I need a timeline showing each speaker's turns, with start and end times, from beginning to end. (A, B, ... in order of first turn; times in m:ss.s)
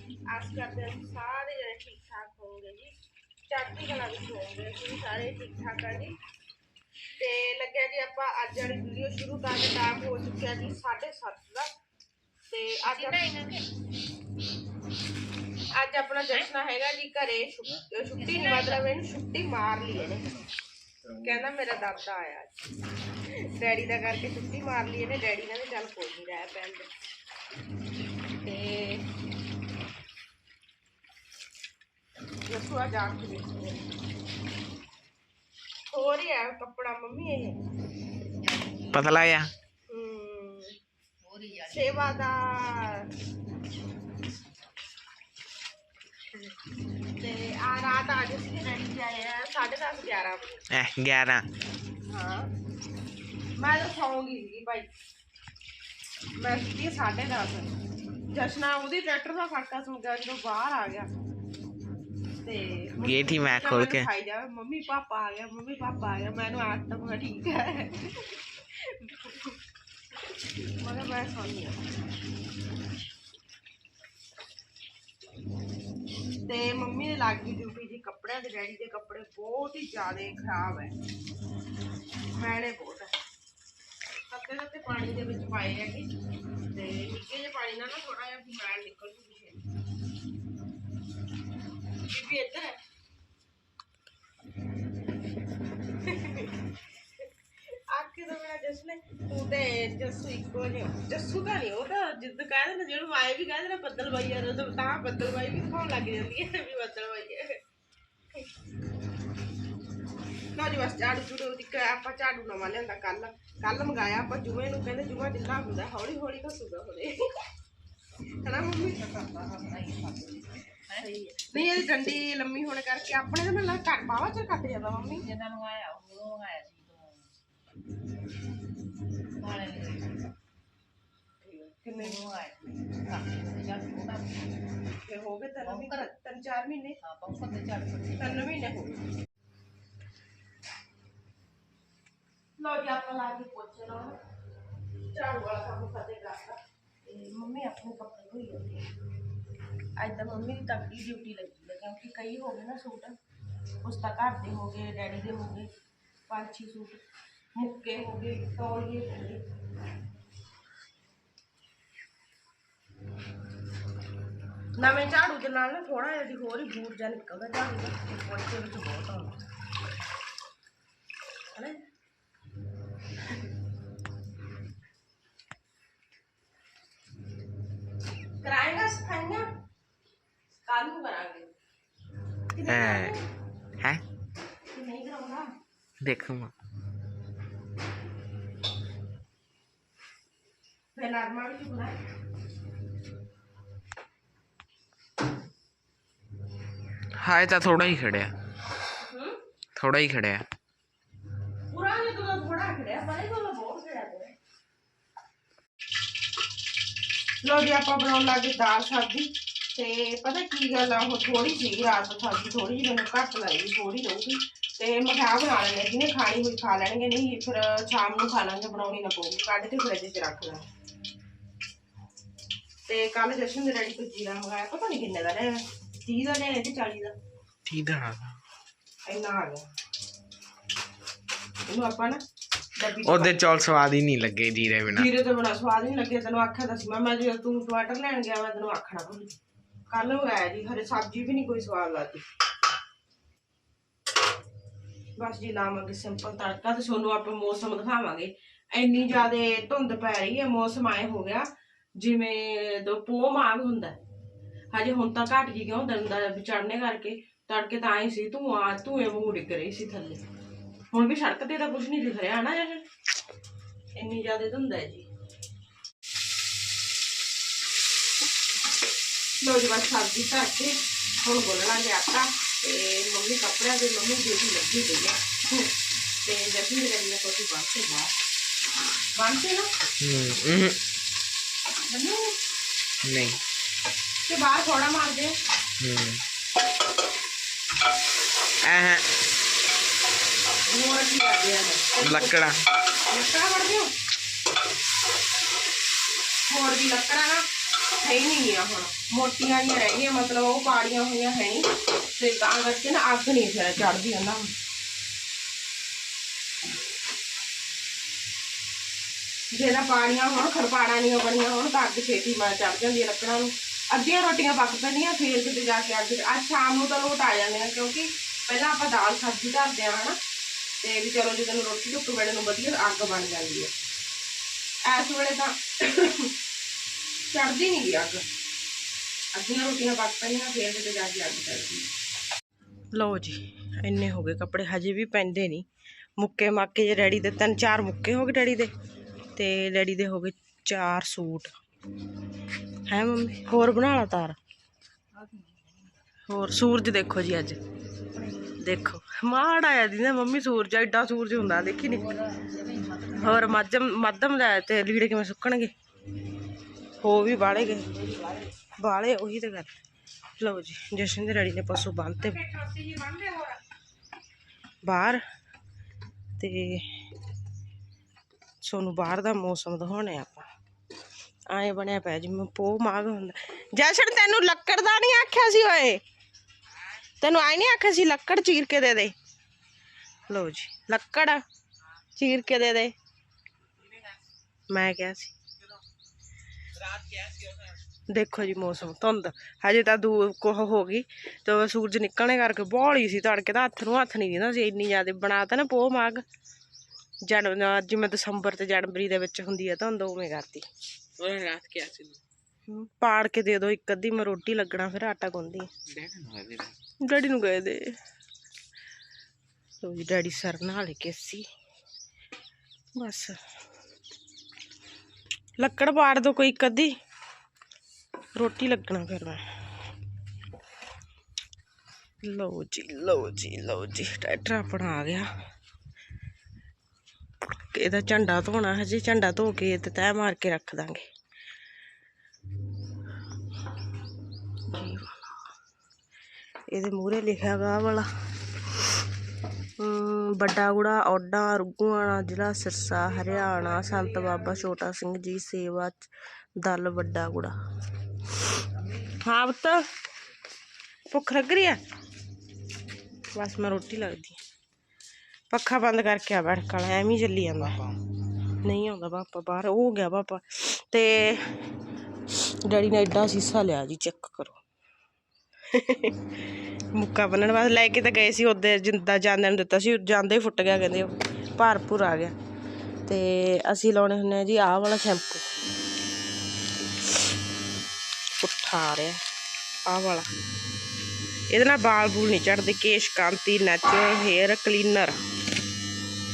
0:00.3-0:02.9 A
0:03.5-0:06.2 A
0:07.2-0:11.7 A
0:12.5-0:13.2 A
0:12.8-0:13.7 B
0:15.7-0:20.3 A
0:18.2-0:18.8 B
0:21.2-0:22.5 A
0:23.5-0:26.9 A
0:28.4-0:29.0 A
0:32.4-0:33.8 A
0:35.9-0:37.6 A
0:38.4-0:39.0 B
0:38.9-0:39.5 C
0:39.9-0:40.8 A
0:41.2-0:42.0 B
0:41.6-0:43.1 A
0:47.2-0:50.6 A
0:50.7-0:51.5 C
0:52.1-0:52.5 A
0:53.6-0:54.9 A
0:56.4-0:57.7 A
0:58.3-1:01.1 A
1:02.4-1:08.3 A
1:03.0-1:04.1 C
1:08.9-1:09.6 A
1:10.8-1:11.8 A
1:16.4-1:21.0 A
1:22.4-1:23.1 A
1:24.3-1:26.1 A
1:26.7-1:29.6 A
1:32.1-1:32.8 A
1:36.0-1:36.6 A
1:37.9-1:47.6 A
1:50.6-1:57.2 A
1:58.4-1:59.4 A
1:59.0-2:01.0 B
2:01.0-2:05.3 A
2:05.2-2:07.3 B
2:09.4-2:10.2 B
2:11.4-2:12.2 A
2:12.0-2:14.5 B
2:15.0-2:17.0 A
2:15.6-2:16.1 B
2:17.0-2:18.4 B
2:18.2-2:19.1 A
2:22.6-2:24.2 A
2:25.1-2:28.9 A
2:30.0-2:33.2 A
2:33.8-2:35.7 A
2:36.3-2:37.0 A
2:37.6-2:39.4 A
2:44.8-2:49.4 A
2:51.5-2:51.8 A
2:58.4-2:59.4 A
3:00.6-3:01.5 A
3:02.5-3:03.2 A
3:02.7-3:03.2 C
3:04.7-3:05.5 A
3:06.0-3:06.5 C
3:11.0-3:12.0 A
3:17.2-3:18.3 C
3:19.0-3:19.4 A
3:19.8-3:20.4 C
3:21.7-3:24.3 A
3:27.4-3:40.6 A
3:42.9-3:47.2 A
3:47.6-3:48.4 C
3:49.1-3:49.7 A
3:51.7-3:52.2 A
3:52.8-3:53.4 A
3:53.0-3:55.1 C
3:54.9-3:59.4 A
3:59.9-4:02.2 A
4:05.2-4:14.0 A
4:14.7-4:20.2 A
4:20.9-4:22.8 A
4:24.0-4:25.1 A
4:29.4-4:35.7 A
4:36.2-4:38.1 A
4:39.2-4:39.7 A
4:40.0-4:40.8 C
4:41.9-4:42.4 A
4:43.0-4:43.4 C
4:44.3-4:45.3 A
4:45.8-4:46.2 C
4:48.6-4:49.0 C
4:50.7-4:53.9 A
4:52.0-4:52.6 C
4:56.5-4:57.5 A
4:58.0-5:04.5 A
5:09.5-5:20.2 A
5:20.8-5:23.7 A
5:24.8-5:26.3 A
5:27.3-5:28.2 A
5:29.3-5:31.9 A
5:32.9-5:35.7 A
5:36.2-5:38.7 A
5:39.4-5:41.5 A
5:42.9-5:44.4 A
5:45.1-5:45.8 B
5:46.3-5:47.6 A
5:48.4-5:52.1 A
5:51.9-5:53.5 B
5:53.1-5:55.7 A
5:57.0-5:57.9 A
5:57.7-5:58.4 B
5:58.8-5:59.7 A
6:00.4-6:03.6 A
6:04.8-6:05.2 A
6:06.4-6:07.0 A
6:08.6-6:10.5 A
6:11.5-6:16.0 A
6:17.2-6:19.2 A
6:20.3-6:21.4 A
6:22.2-6:23.0 A
6:24.7-6:25.4 A
6:28.1-6:36.2 A
6:37.2-6:40.7 A
6:41.2-6:42.2 C
6:42.7-6:45.7 A
6:45.9-6:46.7 C
6:47.0-6:48.0 A
6:49.8-6:51.5 A
6:52.9-6:53.4 A
6:55.6-6:57.0 A
6:58.4-6:59.4 A
7:02.2-7:05.3 A
7:07.6-7:11.0 A
7:14.7-7:15.2 A
7:16.7-7:18.1 A
7:19.8-7:27.5 A
7:23.2-7:24.6 B
7:29.0-7:29.9 A
7:31.1-7:31.8 A
7:33.4-7:34.4 A
7:35.5-7:37.8 A
7:38.6-7:41.6 A
7:42.6-7:44.6 A
7:45.7-7:46.2 A
7:46.9-7:52.4 A
7:53.0-7:55.5 A
7:58.4-7:59.2 A
7:59.9-8:00.3 A
8:01.5-8:05.2 A